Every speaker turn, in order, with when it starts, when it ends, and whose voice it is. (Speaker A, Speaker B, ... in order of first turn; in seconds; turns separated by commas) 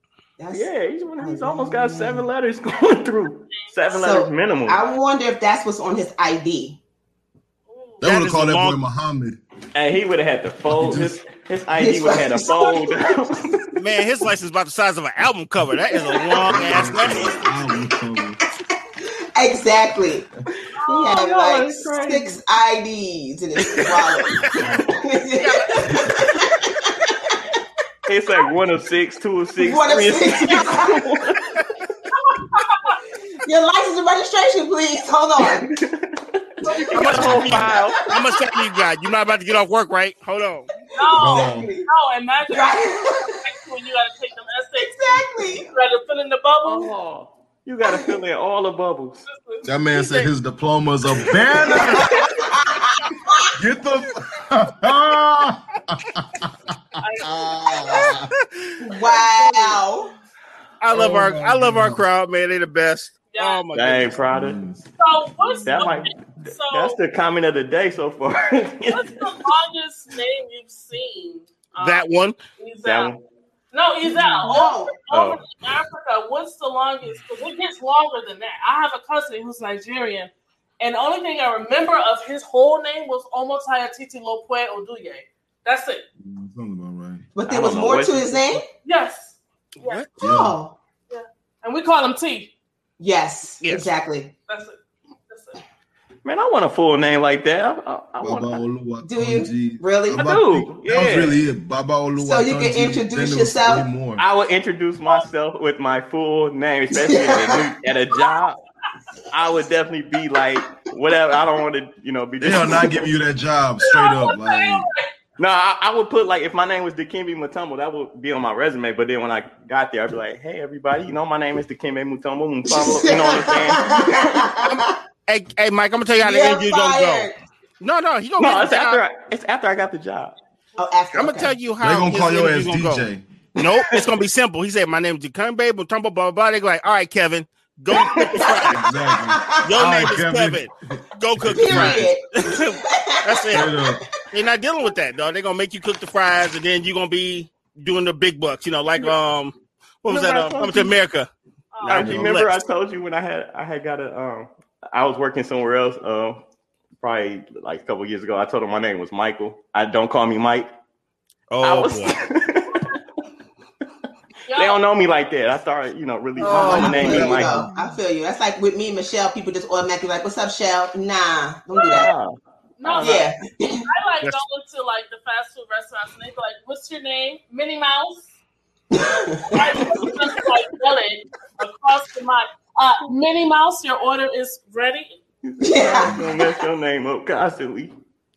Speaker A: 0.4-2.3, Speaker B: 0.5-4.8, Speaker C: 3.5-4.0, Speaker A: 3.9-6.8, Speaker C: 7.7-8.1, Speaker D: 8.0-8.8, Speaker E: 8.0-9.4, Speaker B: 9.7-13.6, Speaker E: 10.7-11.2, Speaker A: 11.8-13.0, Speaker C: 12.4-12.9, Speaker D: 13.8-17.4, Speaker E: 16.5-18.4, Speaker A: 17.3-17.9, Speaker A: 19.3-20.3, Speaker C: 20.8-21.1, Speaker B: 20.9-22.4, Speaker A: 20.9-27.4, Speaker D: 25.4-26.1, Speaker B: 28.1-31.6, Speaker A: 29.6-31.1, Speaker C: 32.1-33.0, Speaker A: 33.4-35.7, Speaker B: 35.4-38.0, Speaker C: 36.6-37.2, Speaker D: 36.9-40.7, Speaker E: 37.2-37.7, Speaker A: 37.8-38.5, Speaker C: 40.9-46.9, Speaker A: 41.0-41.9, Speaker E: 41.2-41.7, Speaker A: 42.5-43.4, Speaker A: 44.8-45.7, Speaker B: 46.6-49.2, Speaker C: 49.2-50.3, Speaker E: 49.6-52.1, Speaker A: 51.7-53.5, Speaker E: 53.6-58.3, Speaker C: 57.0-58.1, Speaker A: 58.8-60.1, Speaker D: 60.8-64.2, Speaker E: 60.9-62.0, Speaker C: 63.3-63.7, Speaker B: 63.7-64.6, Speaker E: 64.3-64.9, Speaker C: 65.0-67.0, Speaker B: 65.7-69.2, Speaker C: 68.9-72.1, Speaker D: 71.8-72.4, Speaker C: 72.6-73.1, Speaker B: 72.8-73.2, Speaker C: 73.7-86.0, Speaker A: 74.4-74.9, Speaker B: 75.1-75.4, Speaker E: 86.2-87.3, Speaker A: 87.3-88.6, Speaker B: 87.4-88.6, Speaker C: 88.8-90.1, Speaker D: 89.8-90.1, Speaker E: 90.2-90.6, Speaker A: 90.2-90.8, Speaker C: 91.1-92.5, Speaker A: 93.0-94.3, Speaker D: 93.6-93.9, Speaker C: 94.5-95.6, Speaker B: 96.2-98.6, Speaker E: 98.2-104.2, Speaker A: 99.0-100.2, Speaker B: 100.1-101.4, Speaker A: 102.2-103.9, Speaker B: 104.2-108.6, Speaker A: 106.9-107.7, Speaker B: 109.3-113.0, Speaker E: 112.4-114.9, Speaker C: 113.8-115.1, Speaker B: 115.4-124.5, Speaker A: 122.6-125.0, Speaker D: 124.6-129.0, Speaker A: 126.2-127.4, Speaker B: 128.4-130.3, Speaker A: 130.8-131.6, Speaker D: 131.1-138.8, Speaker E: 131.8-133.3, Speaker B: 133.6-134.1, Speaker A: 137.9-139.8, Speaker E: 138.7-142.1, Speaker D: 139.6-143.7, Speaker A: 141.5-144.0, Speaker E: 143.5-144.0, Speaker D: 144.3-151.3, Speaker B: 150.1-150.9, Speaker C: 151.7-152.1, Speaker D: 151.8-152.5, Speaker B: 151.8-156.4, Speaker E: 152.0-152.3, Speaker B: 157.0-160.7, Speaker D: 161.5-162.2, Speaker B: 161.6-163.0, Speaker C: 164.4-164.8, Speaker B: 164.6-167.6, Speaker A: 166.4-172.1, Speaker D: 166.4-167.2, Speaker E: 166.7-167.7, Speaker B: 171.9-173.3, Speaker C: 172.8-173.2, Speaker A: 173.0-173.9, Speaker C: 173.9-178.3, Speaker A: 178.9-179.9, Speaker C: 179.4-185.2, Speaker B: 185.4-187.9, Speaker A: 185.6-186.2